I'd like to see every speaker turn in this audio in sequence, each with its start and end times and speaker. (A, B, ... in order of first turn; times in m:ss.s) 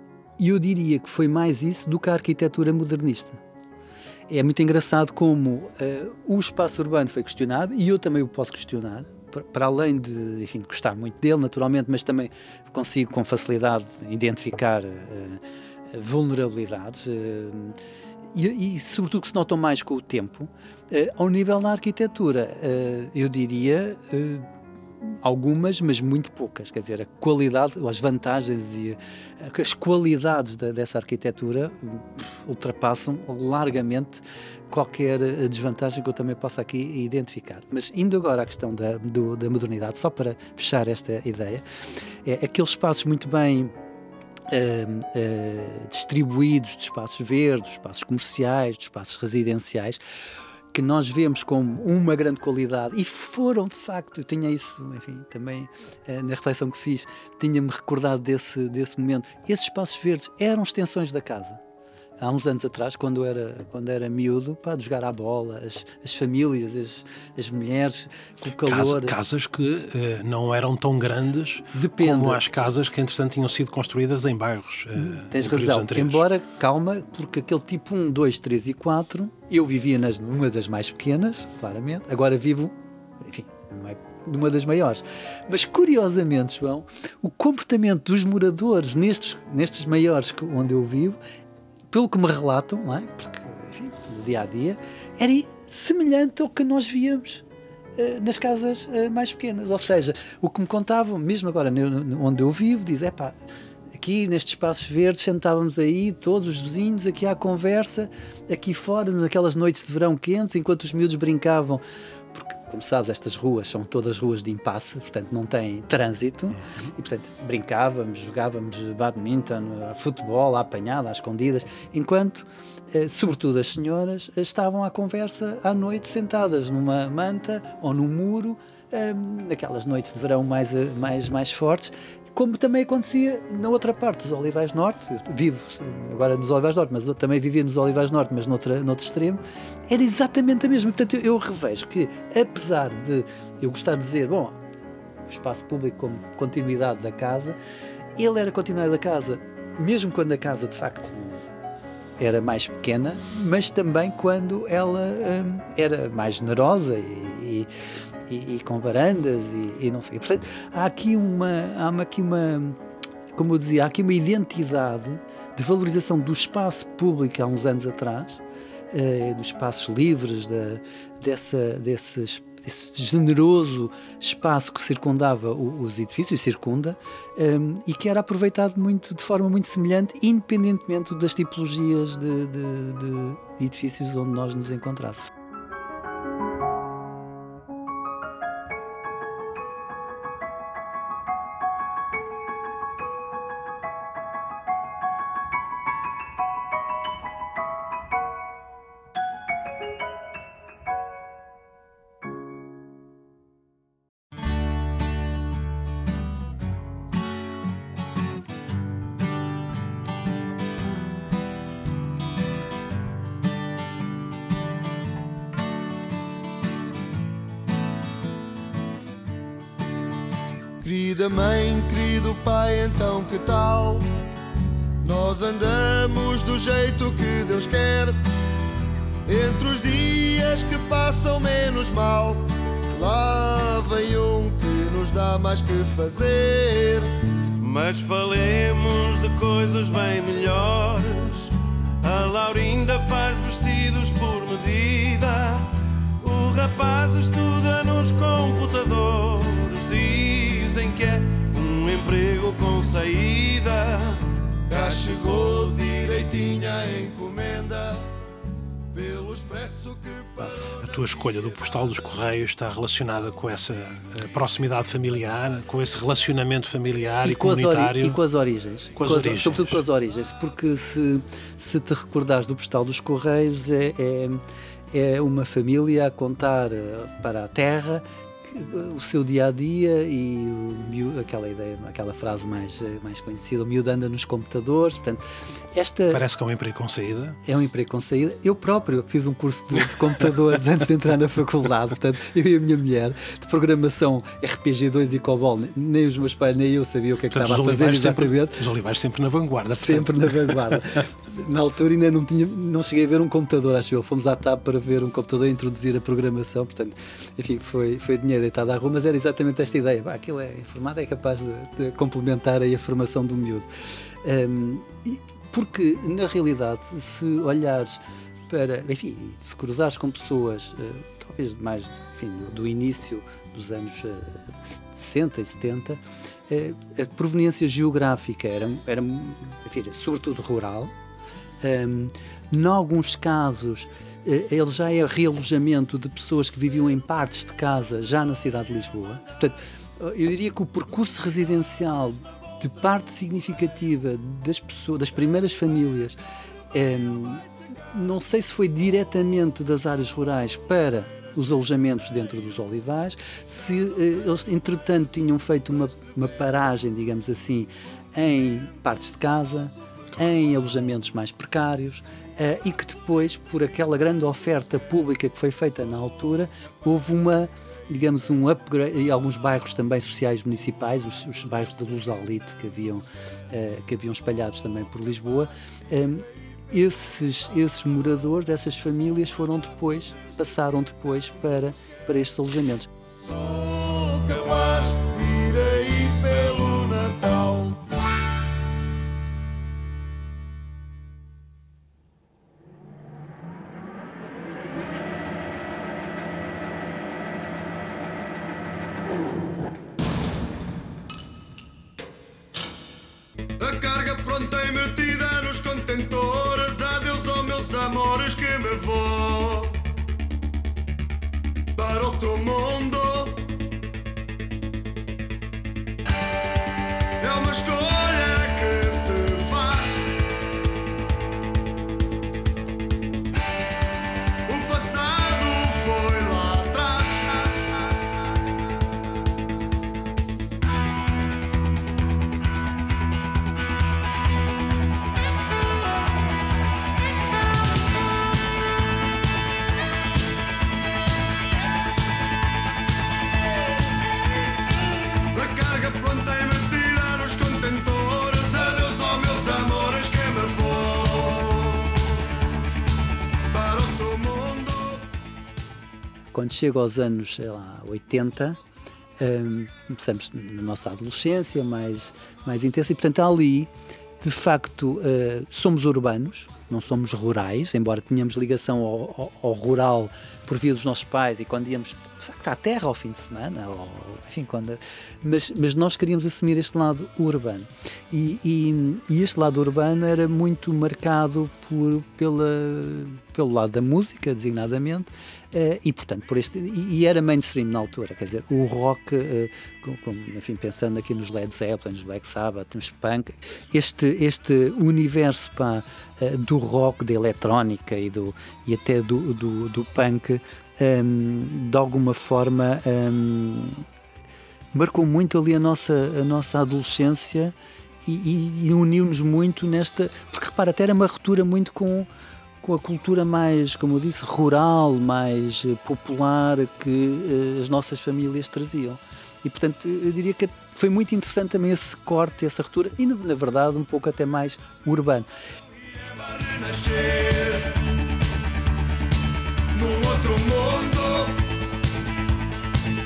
0:00.4-0:03.4 A
0:04.3-0:15.4 A
0:15.9-0:17.8 A
0:18.3-0:24.5 A
0:25.0-0:41.6 A
0:42.2-0:43.7 A
0:44.5-0:50.0 A
0:50.7-1:01.6 A
1:02.2-1:09.2 A
1:08.6-1:16.2 B
1:11.7-1:12.4 A
1:15.0-1:31.2 A
1:31.9-1:37.4 A
1:38.0-1:43.4 A
1:43.9-2:24.6 A
1:56.6-1:56.9 B
2:25.3-2:27.6 A
2:28.2-2:31.4 A
2:32.2-2:37.7 A
2:38.3-2:42.8 A
2:43.3-3:05.3 A
3:40.8-3:44.1 C
3:45.0-3:48.2 C
3:49.2-3:57.1 C
3:57.6-4:05.7 D
4:06.2-4:15.7 D
4:14.7-4:18.1 C
4:18.9-4:20.7 C
4:20.8-4:28.2 B
4:27.2-4:45.2 A
4:29.0-4:29.8 B
4:45.7-4:46.2 A
4:46.1-4:47.4 B
4:47.4-4:58.7 A
4:57.3-5:00.8 B
4:59.7-5:13.7 A
5:14.2-5:30.9 A
5:31.6-5:46.2 A
5:46.7-6:22.9 A
6:23.2-6:27.8 C
6:43.6-6:49.8 C
6:51.7-6:53.4 C
6:57.2-7:00.1 C
7:04.5-7:08.0 C
7:25.3-7:32.2 C
7:33.5-7:35.1 C
7:36.3-7:38.6 A
7:39.2-7:43.7 A
7:44.2-8:23.8 A
8:24.7-8:27.5 A
8:28.0-8:32.1 A
8:32.6-8:45.3 A
8:45.8-8:47.8 C
8:49.7-8:51.4 C